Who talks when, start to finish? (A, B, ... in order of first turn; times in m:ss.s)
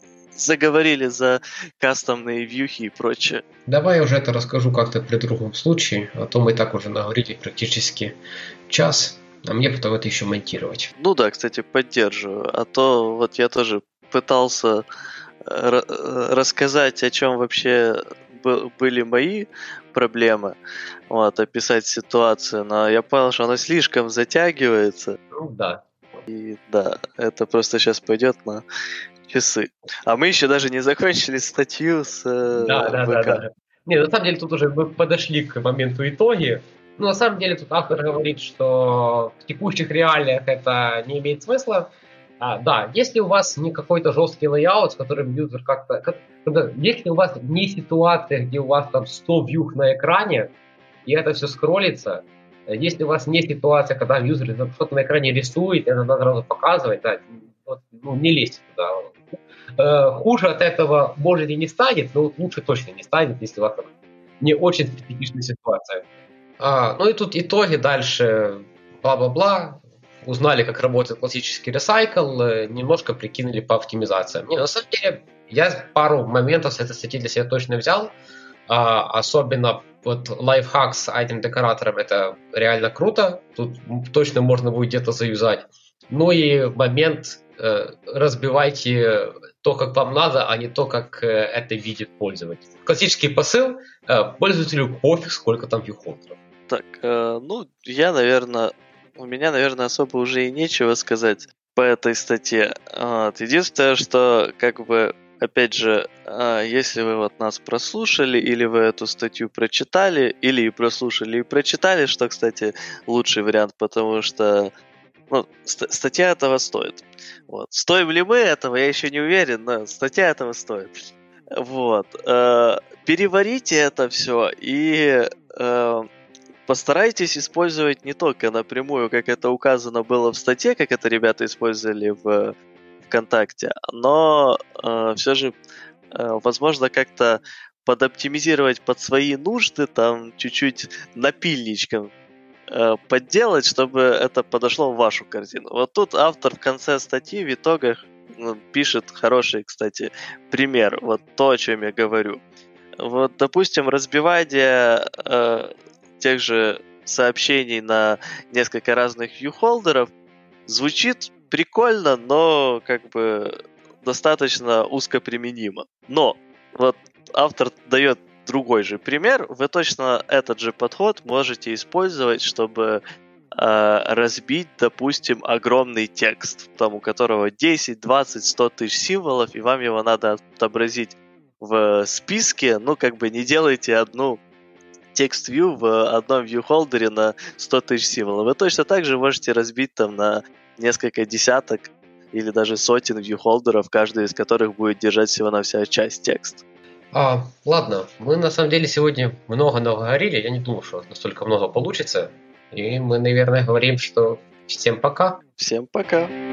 0:00.3-0:03.4 A
0:03.7-0:08.2 B
0:08.7-0:10.9 B
0:11.0-0:14.8 A
0:15.4-0:20.6 A
0:21.1-0:25.2 A
0:25.3-0:25.9 B
0:26.3-0:28.6 A
0:29.3-0:33.4 A
0:32.5-0:50.5 B
0:51.0-0:59.2 B
0:59.8-1:03.9 B
1:04.4-1:06.0 B
1:06.6-1:18.1 B
1:18.7-1:36.4 B
1:36.7-1:54.7 A
1:55.3-2:00.9 A
2:01.5-2:06.0 A
2:06.7-2:15.5 A
2:16.1-2:22.1 A
2:22.7-2:32.4 A
2:33.0-2:40.1 A
2:40.7-2:53.0 A
2:53.5-3:04.4 A
3:05.1-3:16.6 A
3:17.1-3:25.4 B
3:25.6-3:26.3 A